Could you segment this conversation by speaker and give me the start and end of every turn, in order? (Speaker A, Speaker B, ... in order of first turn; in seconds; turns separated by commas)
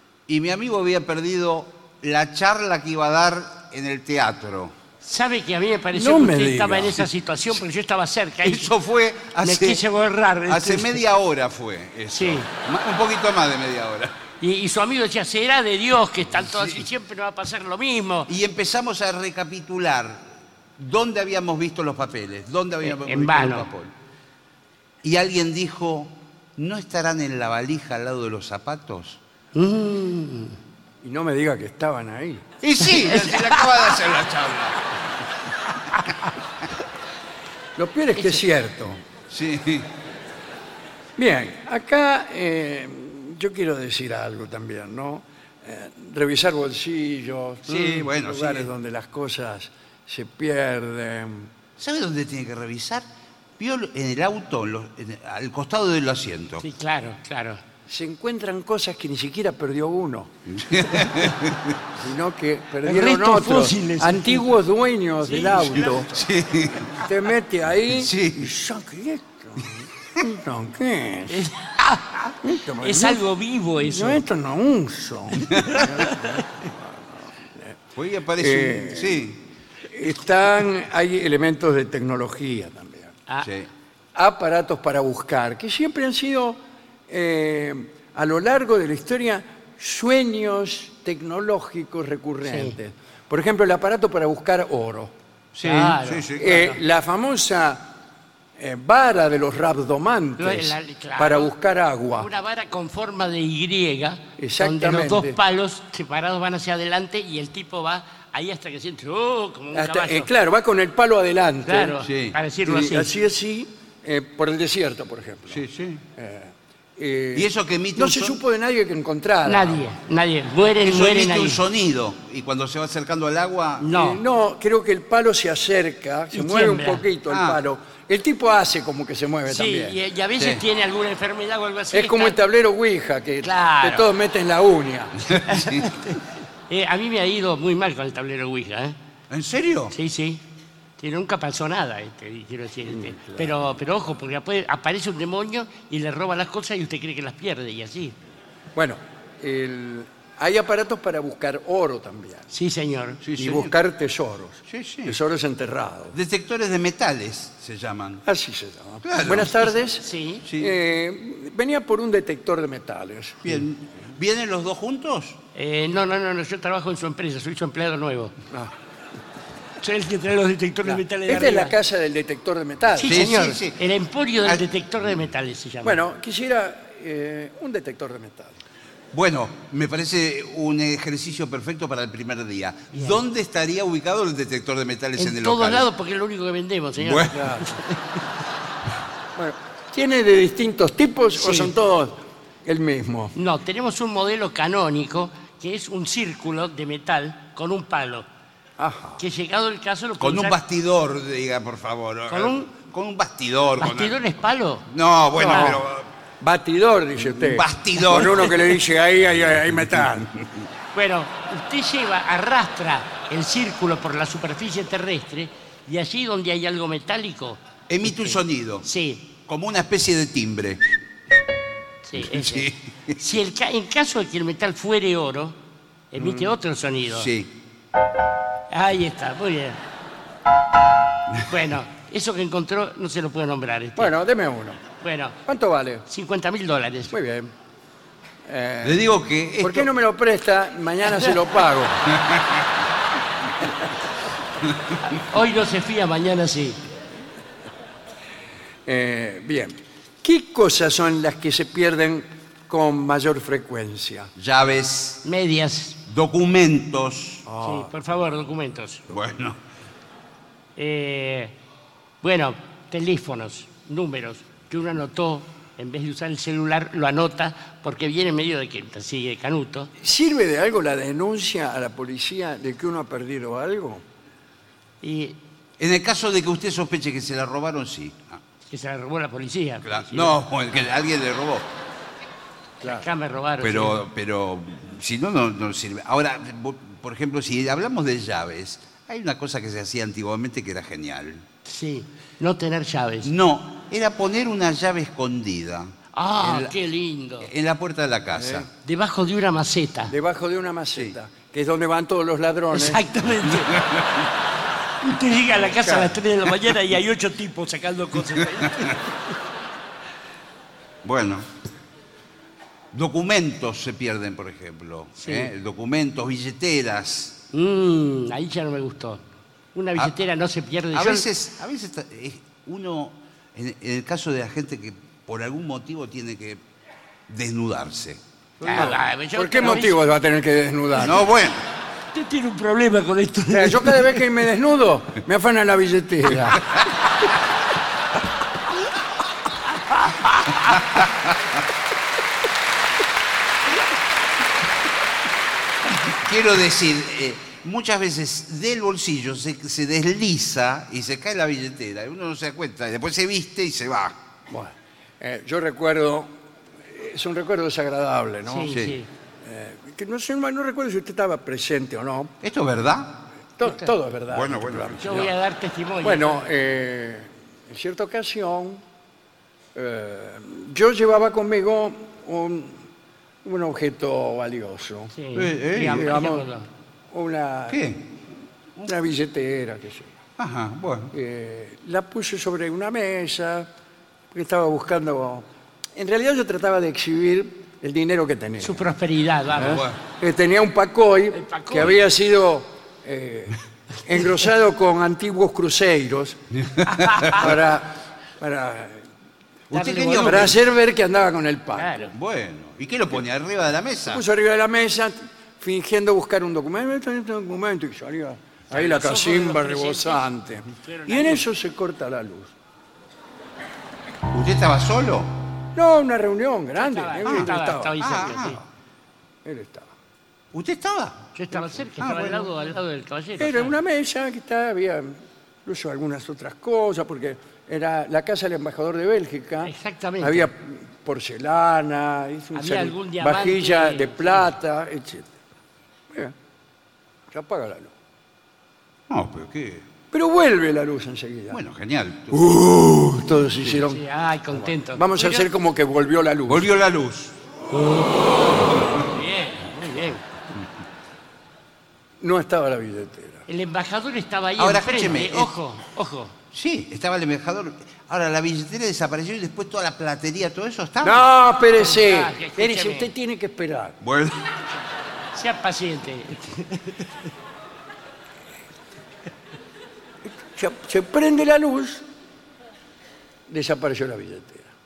Speaker A: 0.3-4.7, Speaker B: 5.0-8.7, Speaker C: 5.9-7.0, Speaker A: 8.4-9.8, Speaker B: 9.4-11.0, Speaker A: 10.5-14.2, Speaker B: 12.1-12.5, Speaker B: 14.4-18.3, Speaker A: 16.4-16.8, Speaker A: 18.3-23.9, Speaker B: 22.8-23.7, Speaker A: 25.0-29.2, Speaker B: 29.5-30.6, Speaker C: 31.0-32.5, Speaker A: 32.6-35.0, Speaker B: 32.8-33.9, Speaker C: 37.8-39.0, Speaker B: 38.2-38.4, Speaker A: 39.3-39.9, Speaker C: 41.2-51.5, Speaker A: 47.7-48.7, Speaker A: 51.8-53.0, Speaker A: 53.6-56.6, Speaker B: 56.6-57.6, Speaker C: 57.9-60.3, Speaker A: 60.5-61.8, Speaker C: 61.9-66.2, Speaker B: 62.8-64.5, Speaker B: 65.2-65.9, Speaker A: 65.9-67.1, Speaker C: 67.0-71.4, Speaker A: 67.9-68.5, Speaker B: 71.3-74.2, Speaker C: 72.4-73.2, Speaker C: 73.8-77.8, Speaker B: 75.5-76.4, Speaker A: 77.9-79.4, Speaker C: 78.4-79.3, Speaker C: 79.9-83.2, Speaker A: 83.4-83.7, Speaker C: 84.1-95.1, Speaker B: 92.4-92.8, Speaker A: 95.5-96.7, Speaker B: 95.6-96.8, Speaker C: 96.4-97.9, Speaker C: 98.6-102.3, Speaker B: 100.4-101.5, Speaker B: 102.2-110.3, Speaker C: 104.4-105.4, Speaker C: 109.7-112.0, Speaker B: 111.7-113.1, Speaker A: 112.0-112.4, Speaker C: 112.6-115.6, Speaker A: 115.5-116.0, Speaker C: 116.2-119.8, Speaker A: 117.3-118.4, Speaker B: 119.5-121.6, Speaker A: 120.8-123.9, Speaker B: 123.8-124.2, Speaker C: 123.9-130.0, Speaker B: 126.3-127.0, Speaker A: 127.3-127.6, Speaker B: 129.5-132.4, Speaker A: 130.4-130.6, Speaker C: 131.9-135.4, Speaker B: 133.4-134.1, Speaker A: 135.3-135.9, Speaker B: 135.4-138.9, Speaker A: 139.3-139.9, Speaker B: 139.9-140.4, Speaker B: 141.0-148.2, Speaker C: 142.9-143.7, Speaker C: 148.7-152.5, Speaker B: 152.5-153.2, Speaker A: 153.2-153.7, Speaker C: 153.3-156.2, Speaker A: 154.7-155.2, Speaker A: 156.1-158.2, Speaker C: 158.2-163.6, Speaker A: 159.0-159.5, Speaker B: 160.0-160.4, Speaker A: 160.4-160.7, Speaker A: 163.4-165.4, Speaker B: 165.5-168.3, Speaker B: 169.8-171.7, Speaker C: 170.9-173.3, Speaker B: 172.9-176.0, Speaker A: 173.0-173.8, Speaker C: 175.8-178.6, Speaker A: 179.1-185.9, Speaker B: 182.9-183.2, Speaker B: 185.2-187.9, Speaker A: 187.0-187.5, Speaker C: 187.3-187.8, Speaker C: 189.3-193.3, Speaker B: 191.4-191.7, Speaker B: 193.3-198.2, Speaker C: 198.8-199.2, Speaker B: 199.2-200.6, Speaker A: 200.2-204.2, Speaker B: 202.3-202.7, Speaker B: 203.8-204.8, Speaker A: 204.9-206.1, Speaker C: 205.4-205.9, Speaker B: 205.4-205.8, Speaker C: 206.4-210.3, Speaker A: 207.2-208.6, Speaker B: 210.9-219.3, Speaker A: 217.9-220.9, Speaker B: 222.0-225.6, Speaker A: 222.2-223.2, Speaker B: 226.1-227.3, Speaker C: 226.2-226.5, Speaker A: 227.1-227.5, Speaker B: 228.7-229.8, Speaker B: 231.4-234.1, Speaker C: 234.0-234.8, Speaker B: 235.0-235.3, Speaker C: 235.4-236.1, Speaker B: 236.1-237.1, Speaker C: 237.1-237.5, Speaker C: 238.4-242.1, Speaker A: 238.8-239.9, Speaker B: 245.0-246.8, Speaker C: 248.8-254.3, Speaker A: 254.4-255.2, Speaker B: 255.2-256.0, Speaker A: 256.1-257.4, Speaker C: 257.4-257.9, Speaker B: 257.6-259.0, Speaker A: 259.1-259.6, Speaker B: 260.8-261.5, Speaker B: 262.2-269.9, Speaker C: 270.0-274.0, Speaker B: 275.0-275.4, Speaker A: 275.8-278.4, Speaker B: 278.7-280.3, Speaker A: 279.8-281.6, Speaker B: 283.0-284.0, Speaker A: 283.6-291.4, Speaker B: 291.6-293.3, Speaker A: 293.2-296.7, Speaker B: 296.1-297.5, Speaker A: 297.4-298.7, Speaker C: 298.4-298.7, Speaker B: 298.8-300.1, Speaker C: 300.1-303.0, Speaker B: 302.7-303.8, Speaker A: 303.6-304.2, Speaker B: 305.0-309.2, Speaker C: 305.5-306.1, Speaker A: 311.0-311.5, Speaker A: 312.9-317.4, Speaker B: 315.2-315.5, Speaker B: 317.5-319.2, Speaker B: 319.7-321.3, Speaker A: 320.9-326.6, Speaker A: 327.3-328.2, Speaker C: 328.6-331.2, Speaker B: 328.6-330.0, Speaker A: 330.9-331.6, Speaker B: 332.1-334.2, Speaker C: 333.5-336.9, Speaker A: 346.0-354.1, Speaker C: 354.5-356.3, Speaker C: 356.9-358.9, Speaker B: 358.4-359.1, Speaker A: 358.7-359.0, Speaker C: 359.4-362.3, Speaker A: 362.4-365.3, Speaker C: 363.6-365.3, Speaker B: 365.0-366.4, Speaker C: 366.0-368.8, Speaker C: 369.7-372.8, Speaker C: 373.4-375.1, Speaker B: 375.1-376.7, Speaker A: 375.3-376.1, Speaker C: 375.8-376.4, Speaker C: 377.1-377.8, Speaker A: 377.7-378.1, Speaker C: 378.8-380.1, Speaker A: 380.4-381.1, Speaker C: 381.1-383.7, Speaker C: 384.3-385.4, Speaker C: 385.9-388.8, Speaker B: 388.6-389.8, Speaker A: 389.6-390.0, Speaker C: 389.6-396.4, Speaker B: 391.3-392.0, Speaker A: 396.6-397.5, Speaker B: 397.0-397.4, Speaker C: 397.2-399.0, Speaker A: 399.7-400.6, Speaker B: 399.7-400.5, Speaker C: 400.1-402.0, Speaker B: 401.8-402.1, Speaker A: 402.1-404.2, Speaker C: 404.1-412.5, Speaker B: 408.7-411.4, Speaker A: 414.3-415.3, Speaker C: 415.7-418.3, Speaker B: 416.8-418.6, Speaker A: 417.2-418.6, Speaker C: 419.4-419.9, Speaker A: 420.5-421.3, Speaker B: 421.3-423.7, Speaker A: 422.0-422.6, Speaker C: 423.4-435.3, Speaker B: 429.6-430.5, Speaker B: 432.5-434.5, Speaker C: 437.3-437.9, Speaker A: 439.1-439.8, Speaker C: 440.1-441.6, Speaker A: 441.5-442.5, Speaker C: 442.3-444.0, Speaker B: 443.8-445.4, Speaker C: 444.5-446.7, Speaker A: 446.5-447.3, Speaker B: 447.7-450.2, Speaker C: 452.2-453.4, Speaker B: 453.5-456.3, Speaker A: 454.6-455.5, Speaker A: 456.5-461.3, Speaker C: 461.0-464.0, Speaker B: 461.8-463.1, Speaker A: 464.0-464.5, Speaker B: 465.3-467.1, Speaker C: 470.5-472.0, Speaker C: 473.5-474.7